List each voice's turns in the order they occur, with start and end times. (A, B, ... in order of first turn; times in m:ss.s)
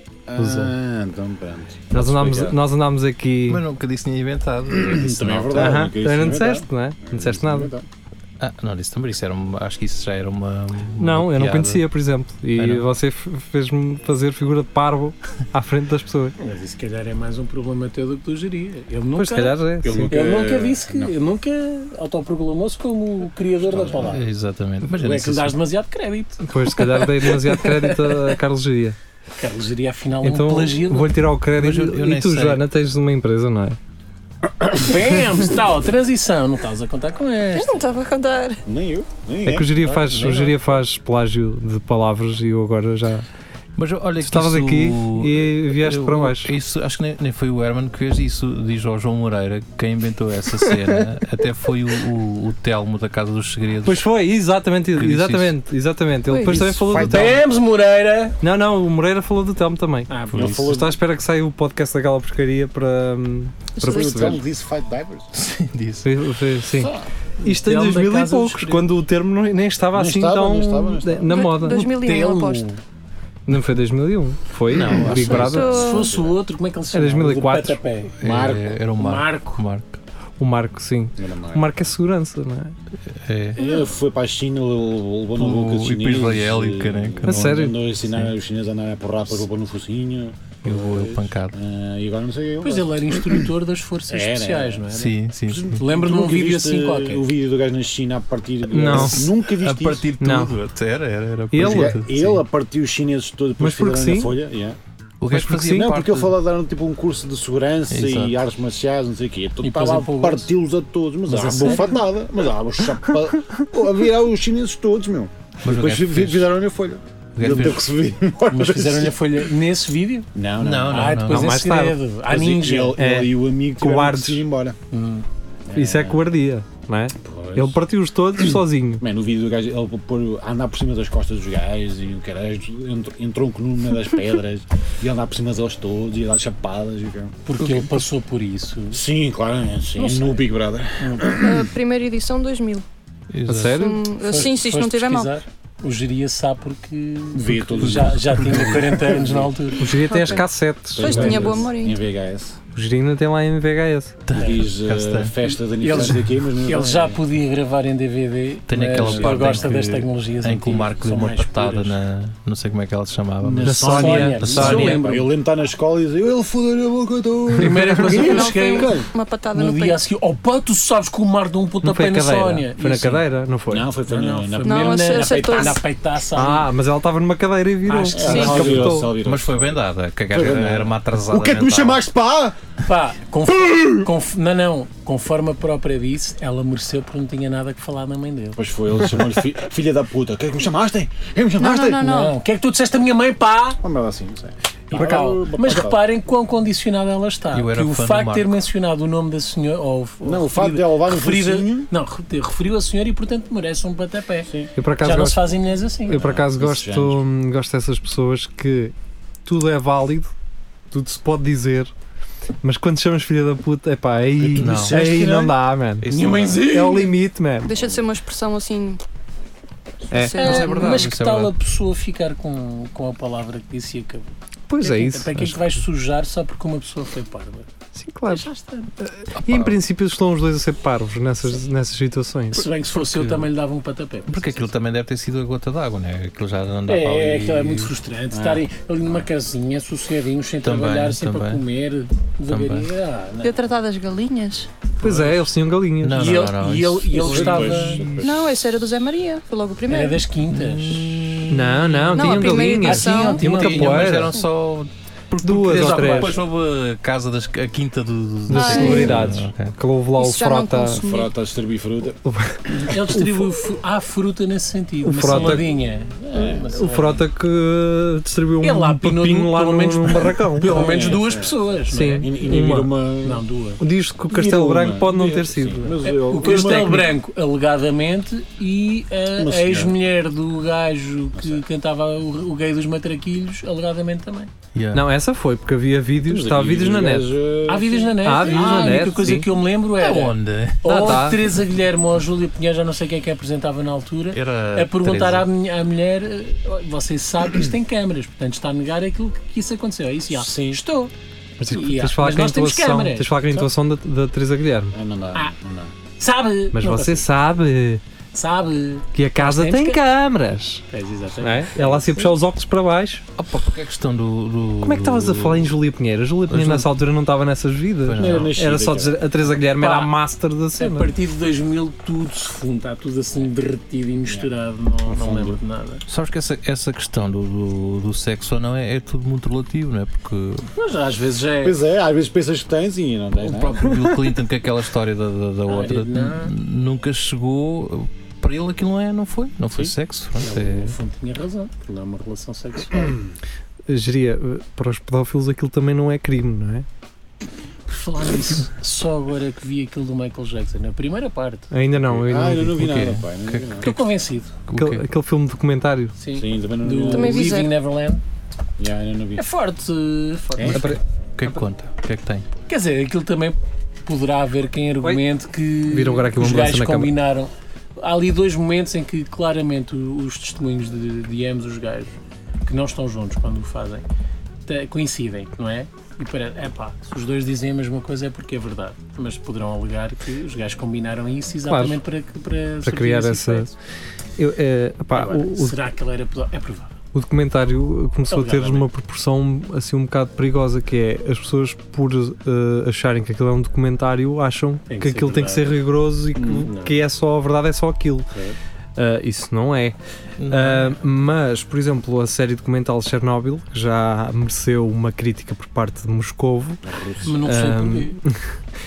0:00.3-0:02.6 A
0:00.4-0:00.7 B
0:01.9-0:03.6 B
0:03.5-0:05.8 C
0:04.7-0:07.8 A
0:05.6-0:07.7 B
0:08.4-0:11.8 C
0:11.0-0:16.3 B
0:12.6-0:12.9 C
0:16.4-0:24.2 D
0:19.2-0:20.4 B
0:19.8-0:21.2 A
0:23.6-0:24.2 A
0:24.0-0:25.6 C
0:24.9-0:28.4 D
0:26.5-0:29.0 B
0:29.4-0:31.2 D
0:30.2-0:33.8 B
0:31.6-0:32.6 C
0:34.6-0:37.9 D
0:37.5-0:38.6 E
0:38.7-0:39.7 A
0:39.4-0:43.2 B
0:39.8-0:40.6 D
0:43.8-0:54.1 C
0:44.2-0:46.5 B
0:50.7-0:51.0 B
0:53.8-0:57.4 B
0:55.0-0:55.5 C
0:56.3-0:56.7 E
0:56.4-0:57.6 A
0:56.9-0:58.4 D
0:58.4-1:04.4 B
1:00.1-1:00.9 D
1:00.3-1:01.0 A
1:03.8-1:04.3 E
1:03.8-1:05.3 A
1:05.4-1:06.1 C
1:06.0-1:11.9 B
1:07.4-1:08.9 D
1:09.9-1:11.4 A
1:11.3-1:12.7 E
1:11.4-1:12.8 D
1:13.5-1:15.8 B
1:14.7-1:15.6 C
1:15.0-1:18.1 D
1:15.1-1:16.2 E
1:15.6-1:16.4 A
1:16.9-1:17.8 B
1:18.2-1:20.0 C
1:18.2-1:18.8 A
1:19.0-1:19.6 D
1:20.4-1:22.8 B
1:21.2-1:21.8 A
1:23.1-1:23.6 C
1:23.6-1:33.5 A
1:25.4-1:27.6 C
1:27.2-1:27.8 B
1:30.6-1:31.6 C
1:32.6-1:35.1 D
1:34.1-1:34.8 A
1:34.9-1:35.8 C
1:35.5-1:40.0 A
1:35.8-1:37.2 D
1:38.7-1:39.2 B
1:38.9-1:42.4 C
1:40.2-1:40.5 B
1:41.5-1:41.9 B
1:41.6-1:44.8 A
1:43.6-1:44.4 B
1:45.2-1:46.4 C
1:45.3-1:45.9 B
1:45.4-1:59.4 A
1:47.9-1:48.4 C
1:49.6-1:50.5 D
1:51.3-1:52.0 D
1:55.6-1:56.6 C
1:57.4-1:57.8 C
1:58.5-2:00.3 D
2:00.4-2:01.2 A
2:00.6-2:01.7 C
2:00.9-2:03.0 D
2:01.3-2:02.0 B
2:02.3-2:04.8 A
2:03.0-2:04.4 B
2:04.9-2:05.3 D
2:05.7-2:06.2 A
2:05.7-2:09.0 B
2:07.2-2:07.8 A
2:08.4-2:17.4 A
2:17.5-2:19.0 D
2:17.6-2:17.9 C
2:18.9-2:21.7 A
2:20.0-2:20.5 D
2:21.0-2:21.3 D
2:21.3-2:22.8 E
2:23.3-2:23.8 C
2:23.5-2:24.0 B
2:23.7-2:25.3 E
2:24.2-2:29.9 D
2:27.3-2:29.6 A
2:27.8-2:28.9 C
2:29.8-2:31.5 B
2:30.0-2:32.0 E
2:31.0-2:32.6 A
2:32.7-2:34.2 B
2:34.3-2:35.4 C
2:34.4-2:34.6 D
2:34.4-2:37.2 A
2:35.5-2:42.0 D
2:35.9-2:36.2 C
2:38.7-2:45.2 C
2:39.0-2:39.8 A
2:43.4-2:49.1 A
2:43.6-2:44.8 B
2:43.9-2:45.3 D
2:47.6-2:53.2 D
2:48.1-2:50.0 E
2:51.8-2:53.9 B
2:53.7-2:55.8 A
2:54.1-2:56.7 D
2:54.6-2:55.8 E
2:56.3-2:59.1 B
2:57.9-2:59.0 D
2:58.1-3:02.6 A
2:58.2-2:58.6 E
2:59.1-3:02.0 C
3:02.8-3:08.6 D
3:03.6-3:04.1 A
3:08.6-3:12.1 A
3:11.6-3:12.4 E
3:12.0-3:13.8 D
3:13.8-3:16.0 A
3:14.9-3:26.3 D
3:15.0-3:15.3 B
3:17.5-3:18.5 C
3:20.2-3:21.9 A
3:24.4-3:24.7 A
3:24.8-3:25.5 B
3:26.1-3:30.3 B
3:26.1-3:27.2 A
3:30.9-3:31.9 B
3:32.6-3:36.1 B
3:34.4-3:35.5 A
3:34.6-3:35.0 C
3:34.8-3:35.5 D
3:36.0-3:36.7 C
3:36.1-3:37.2 D
3:36.6-3:37.7 B
3:37.6-3:39.0 E
3:40.1-3:41.0 B
3:40.1-3:41.0 E
3:40.4-3:47.7 D
3:40.4-3:41.5 C
3:44.7-3:45.5 B
3:47.9-3:48.5 B
3:48.3-3:48.9 D
3:49.0-3:52.7 B
3:49.3-3:49.8 C
3:52.5-3:54.7 D
3:52.9-3:53.5 C
3:54.3-3:57.9 C
3:56.9-4:03.6 D
3:58.3-3:59.2 A
4:00.6-4:01.6 C
4:02.5-4:02.9 C
4:03.4-4:04.7 E
4:05.0-4:06.5 B
4:05.0-4:05.4 D
4:06.0-4:08.2 C
4:06.2-4:08.2 D
4:07.1-4:08.5 A
4:08.2-4:10.2 E
4:09.9-4:14.2 D
4:10.5-4:11.7 C
4:11.5-4:14.4 B
4:12.1-4:13.5 E
4:13.2-4:19.8 C
4:15.4-4:16.4 B
4:15.6-4:16.4 D
4:18.5-4:21.0 B
4:18.5-4:19.2 E
4:20.2-4:21.3 E
4:21.0-4:22.8 A
4:22.2-4:23.5 B
4:22.8-4:27.2 D
4:25.0-4:25.7 B
4:25.3-4:25.6 A
4:26.2-4:26.7 A
4:26.6-4:31.1 B
4:28.6-4:33.8 D
4:30.6-4:33.4 A
4:31.9-4:32.9 B
4:33.8-4:37.1 B
4:34.3-4:37.1 A
4:36.0-4:44.5 D
4:39.4-4:40.0 A
4:41.4-4:41.6 A
4:44.8-4:45.1 C
4:44.9-4:47.3 B
4:46.2-4:49.3 A
4:47.7-5:01.1 D
4:48.2-4:49.5 B
4:50.0-4:51.4 C
4:50.8-4:51.4 B
4:54.3-4:55.5 C
5:00.3-5:00.8 A
5:01.6-5:05.0 B
5:01.7-5:03.7 D
5:04.9-5:05.9 A
5:06.2-5:07.3 D
5:06.7-5:08.0 B
5:08.3-5:10.0 D
5:09.1-5:10.8 B
5:10.9-5:12.3 D
5:11.4-5:13.2 B
5:13.4-5:15.7 C
5:14.8-5:21.1 B
5:16.5-5:16.9 C
5:18.0-5:18.5 C
5:18.2-5:19.2 A
5:19.8-5:20.1 D
5:20.8-5:26.0 D
5:24.3-5:24.5 A
5:25.1-5:25.6 A
5:26.1-5:30.7 C
5:30.7-5:31.8 D
5:31.6-5:34.0 A
5:33.4-5:41.0 C
5:35.7-5:36.5 D
5:40.4-5:43.2 D
5:42.9-5:43.3 A
5:43.9-5:46.9 B
5:47.9-5:51.7 D
5:51.7-5:52.8 B
5:52.1-5:53.9 A
5:52.7-5:54.0 C
5:53.8-5:54.5 D
5:54.7-5:55.0 C
5:54.7-5:56.1 B
5:56.2-5:58.2 D
5:56.3-5:57.6 A
5:57.1-5:57.7 E
5:58.8-5:59.4 A
5:59.4-6:00.9 D
6:00.6-6:00.8 A
6:00.6-6:01.0 B
6:01.4-6:02.5 C
6:02.7-6:12.1 D
6:05.9-6:07.1 B
6:12.6-6:14.0 D
6:14.7-6:23.7 D
6:21.7-6:22.0 B
6:22.8-6:23.7 B
6:24.4-6:25.8 B
6:25.1-6:26.9 D
6:27.1-6:38.3 B
6:28.3-6:28.9 D
6:34.9-6:35.8 D
6:36.4-6:37.0 D
6:39.0-6:40.0 B
6:40.4-6:41.0 C
6:40.5-6:46.8 B
6:46.8-6:47.4 A
6:47.2-6:48.2 D
6:47.4-6:48.6 B